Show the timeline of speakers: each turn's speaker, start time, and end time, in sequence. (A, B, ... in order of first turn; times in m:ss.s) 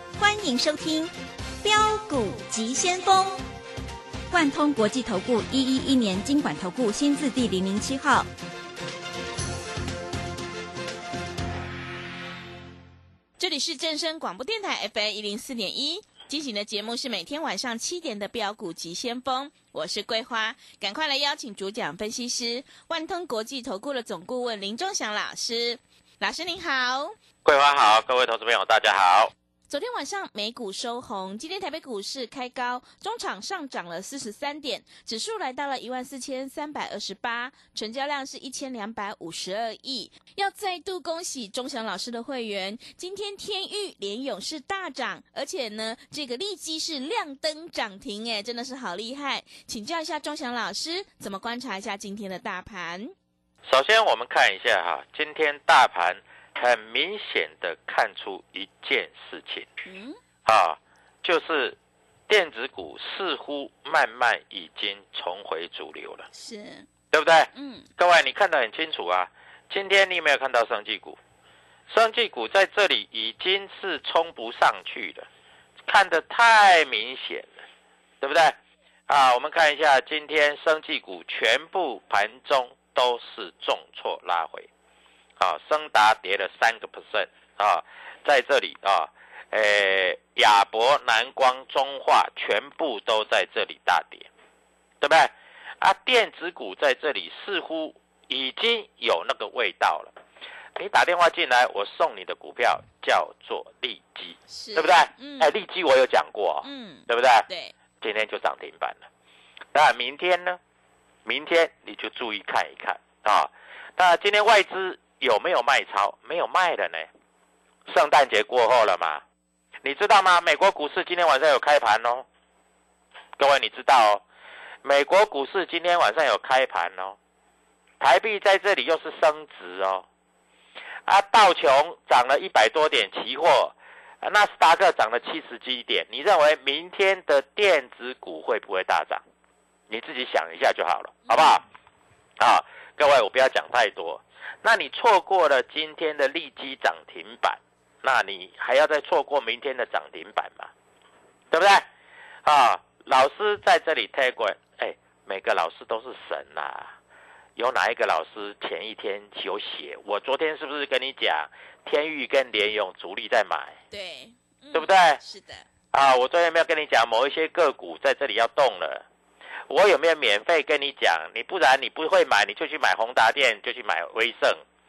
0:00.2-0:03.4 A
0:04.3-0:08.3 A
0:13.4-0:27.1 B
0:27.4-0:29.3 C
0:29.7-0:53.1 B
0:53.7-0:59.7 C
0:59.9-1:00.2 B
1:00.4-1:01.8 C
1:02.3-1:06.3 C
1:06.3-1:06.9 B
1:07.1-1:11.2 C
1:07.6-1:07.9 B
1:11.9-1:15.3 C
1:15.9-1:17.5 C
1:18.2-1:18.6 C
1:19.1-1:24.7 C
1:25.4-1:34.3 C
1:35.0-1:40.1 C
1:40.8-1:47.5 C
1:44.5-1:45.5 B
1:46.6-1:47.7 B
1:48.0-1:49.1 C
1:49.7-1:50.6 C
1:51.2-1:57.1 C
1:57.9-1:59.2 C
1:59.8-2:02.2 C
2:03.4-2:04.2 C
2:04.8-2:07.2 C
2:08.0-2:10.1 C
2:11.1-2:19.2 C
2:19.9-2:21.6 C
2:21.3-2:21.6 B
2:22.4-2:30.7 C
2:31.5-2:31.9 C
2:32.4-2:36.9 C
2:37.6-2:43.8 C
2:43.9-2:45.6 B
2:44.7-2:45.2 C
2:45.9-2:49.0 C
2:49.7-2:54.6 C